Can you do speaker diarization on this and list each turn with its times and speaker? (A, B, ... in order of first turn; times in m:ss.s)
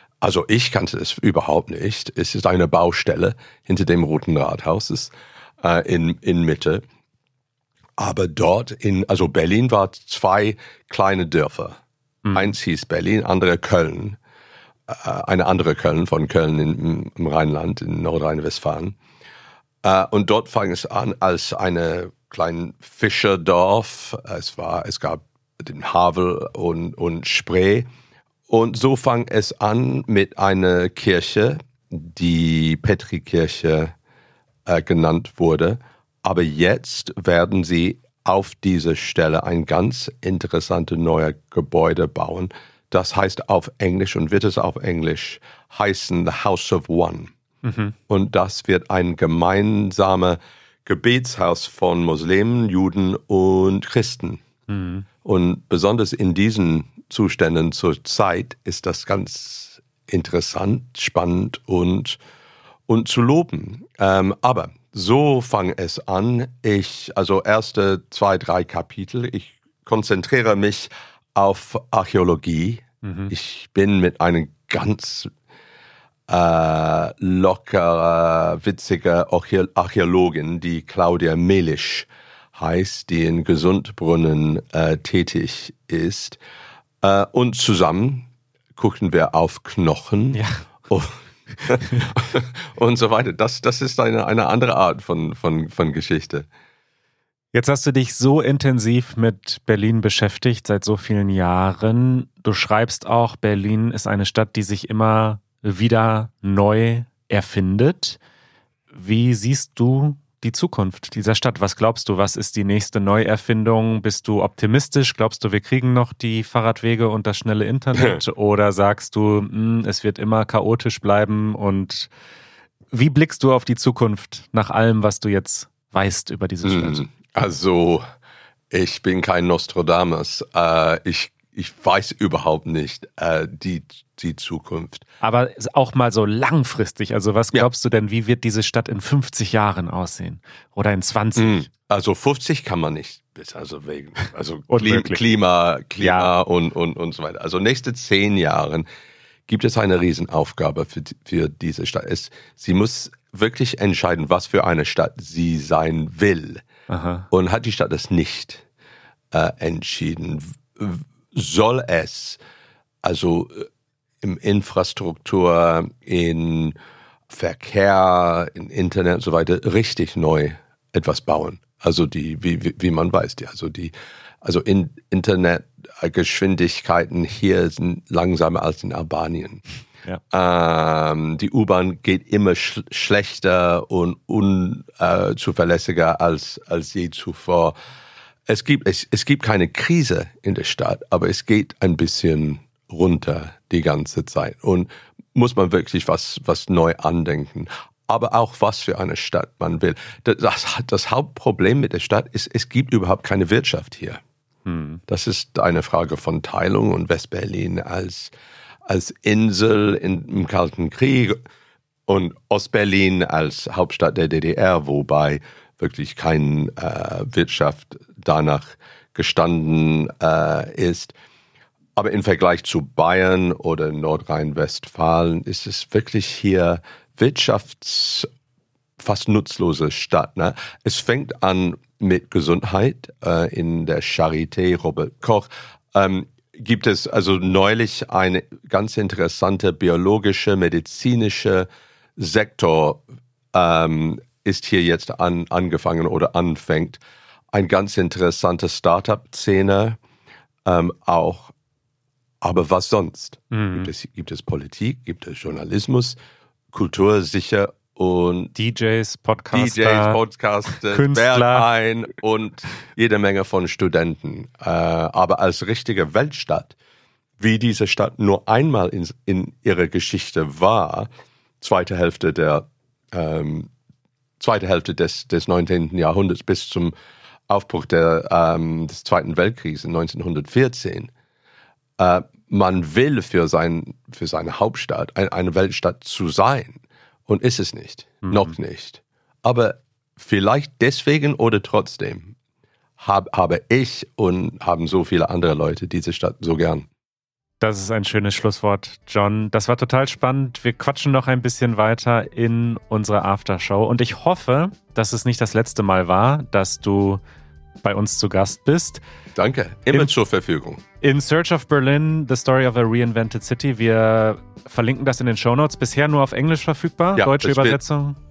0:00.2-0:06.8 A
0:08.0-0:11.8 A
0:12.2-0:12.5 B
0:12.3-0:14.2 A
0:14.9-0:19.0 A
0:19.8-0:27.9 A
0:28.5-0:33.9 A
0:34.6-0:47.3 A
0:47.6-0:48.0 B
0:48.1-0:54.4 A
0:54.7-0:55.0 B
0:55.2-1:02.2 A
1:02.9-1:15.3 A
1:13.0-1:13.3 B
1:16.3-1:26.4 A
1:27.0-1:36.5 A
1:30.3-1:30.6 B
1:31.8-1:32.1 B
1:37.5-1:48.2 B
1:48.9-2:02.1 B
2:02.9-2:07.0 B
2:06.6-2:08.0 A
2:08.7-2:15.0 A
2:15.2-2:21.7 B
2:21.4-2:28.8 A
2:24.7-2:25.2 B
2:26.0-2:26.3 B
2:29.5-2:36.6 A
2:36.9-2:37.3 B
2:37.3-2:38.6 A
2:39.3-2:42.4 A
2:43.0-2:43.7 A
2:44.2-2:46.7 A
2:47.3-2:59.6 A
3:00.3-3:07.7 A
3:08.5-3:24.2 A
3:24.6-3:25.0 B
3:25.1-3:28.3 A
3:28.8-3:31.4 A
3:32.1-3:41.1 A
3:42.0-3:48.3 A
3:49.0-4:07.0 A
4:07.5-4:10.0 A
4:10.6-4:11.5 A
4:12.4-4:16.2 A
4:13.5-4:13.9 B
4:16.7-4:18.5 A
4:18.6-4:21.7 B
4:19.5-4:26.7 A
4:27.4-4:31.1 A
4:31.6-4:33.7 A
4:34.4-4:36.9 A
4:37.5-4:41.1 A
4:42.0-4:52.3 A
4:48.2-4:48.5 B
4:53.0-4:56.9 A
4:57.6-5:07.2 B
5:07.8-5:09.0 B
5:09.4-5:10.8 A
5:11.0-5:18.2 B
5:17.2-5:17.8 A